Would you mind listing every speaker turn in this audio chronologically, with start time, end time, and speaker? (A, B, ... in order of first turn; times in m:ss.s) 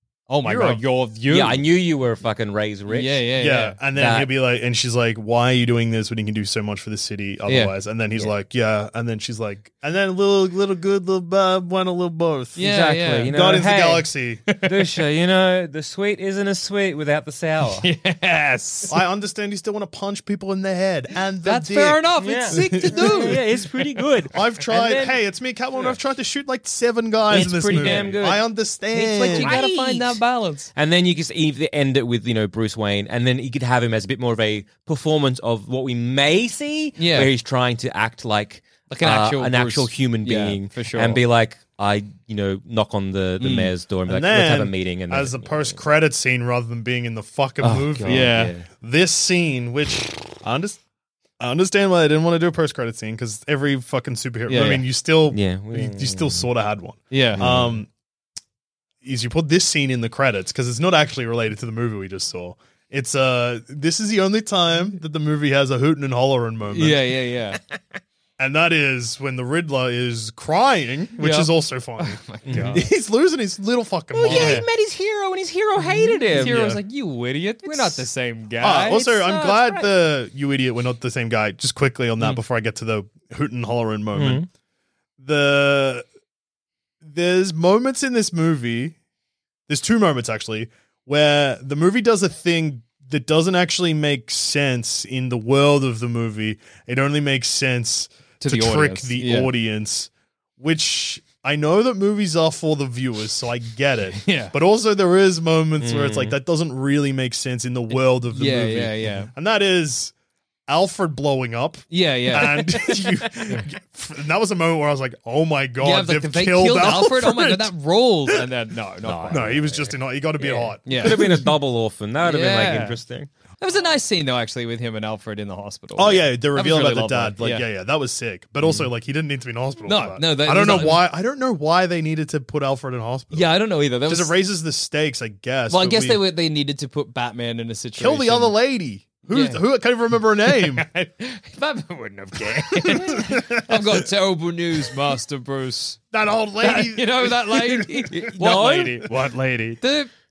0:00.3-0:01.6 A
0:00.4-0:00.8 B
0:01.3-0:03.2 C
0:02.9-0:03.8 A
0:03.4-0:12.6 B
0:04.0-0:04.3 C
0:07.5-0:07.7 A
0:12.6-0:13.3 A
0:12.6-0:17.9 C
0:13.3-0:14.4 B
0:14.5-0:14.9 A
0:17.8-0:19.0 A
0:18.9-0:23.4 B
0:21.4-0:23.4 A
0:22.2-0:25.2 C
0:24.3-0:29.6 B
0:27.3-0:30.2 C
0:27.4-0:28.2 A
0:29.2-0:30.7 A
0:30.8-0:45.8 C
0:37.0-0:37.3 A
0:38.9-0:41.2 A
0:43.4-0:43.7 A
0:44.1-0:50.8 B
0:47.6-0:48.7 C
0:48.1-0:48.5 A
0:51.4-0:57.9 B
0:54.5-0:54.8 A
0:55.3-0:56.5 C
0:57.1-0:57.4 A
0:57.4-0:57.8 C
0:59.0-1:07.0 B
1:06.7-1:07.6 A
1:08.4-1:14.6 B
1:11.2-1:12.9 A
1:12.5-1:12.8 C
1:14.1-1:16.7 C
1:14.3-1:14.7 A
1:16.3-1:19.0 A
1:16.3-1:16.8 B
1:17.6-1:18.0 C
1:18.6-1:24.4 B
1:18.9-1:19.9 C
1:24.1-1:24.5 C
1:25.2-1:26.0 B
1:27.0-1:29.0 B
1:29.7-1:50.1 B
1:38.4-1:39.5 A
1:44.2-1:44.5 A
1:45.8-1:46.4 C
1:48.3-1:49.3 A
1:50.7-1:57.7 B
1:51.9-1:52.6 A
1:52.9-1:53.2 C
1:55.8-1:59.6 A
1:59.0-2:03.3 C
1:59.3-2:01.5 B
2:00.9-2:01.4 A
2:02.2-2:03.0 A
2:03.6-2:07.6 A
2:06.0-2:13.5 B
2:08.6-2:08.9 C
2:09.9-2:11.0 A
2:13.3-2:14.3 A
2:14.0-2:16.2 B
2:15.7-2:18.5 A
2:18.0-2:20.9 B
2:19.3-2:19.6 A
2:20.5-2:26.0 A
2:22.8-2:24.0 B
2:26.1-2:29.8 B
2:26.6-2:30.1 A
2:28.1-2:29.1 C